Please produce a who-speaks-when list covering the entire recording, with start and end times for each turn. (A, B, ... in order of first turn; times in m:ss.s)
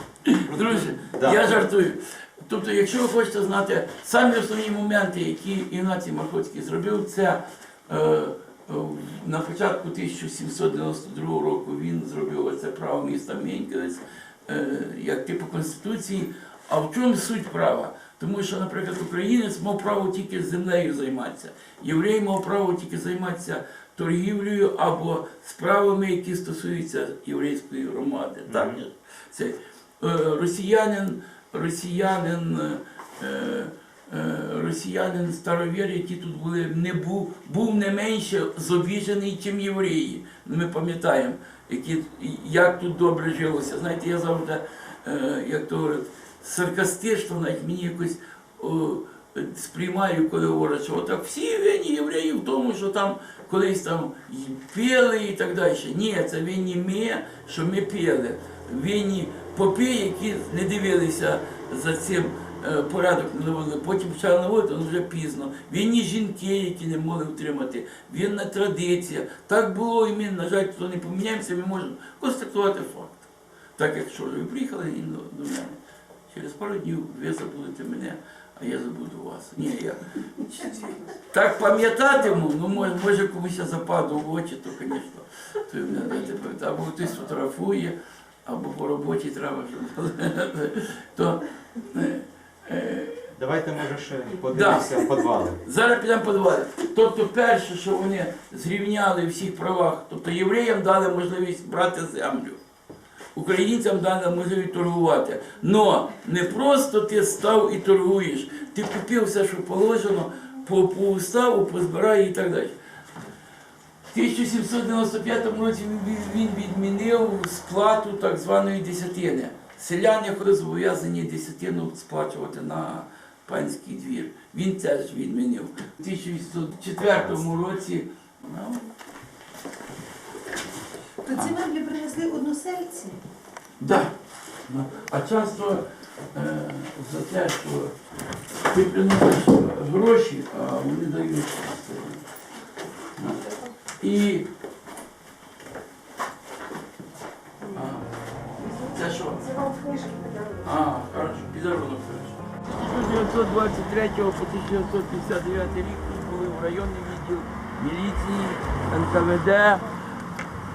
0:00.2-1:33.3 A
0:00.4-0:01.6 B
0:28.5-0:28.8 B
1:33.3-1:35.6 B
1:34.5-1:35.0 A
1:35.6-1:42.6 A
1:43.3-1:52.8 A
1:54.1-2:08.9 A
2:11.2-2:13.2 C
2:13.8-2:14.1 A
2:14.6-2:17.9 A
2:18.6-2:22.2 A
2:23.4-2:23.7 C
2:24.0-2:24.5 A
2:27.7-2:28.1 A
2:28.6-2:29.4 A
2:28.8-2:30.8 C
2:30.6-2:39.8 A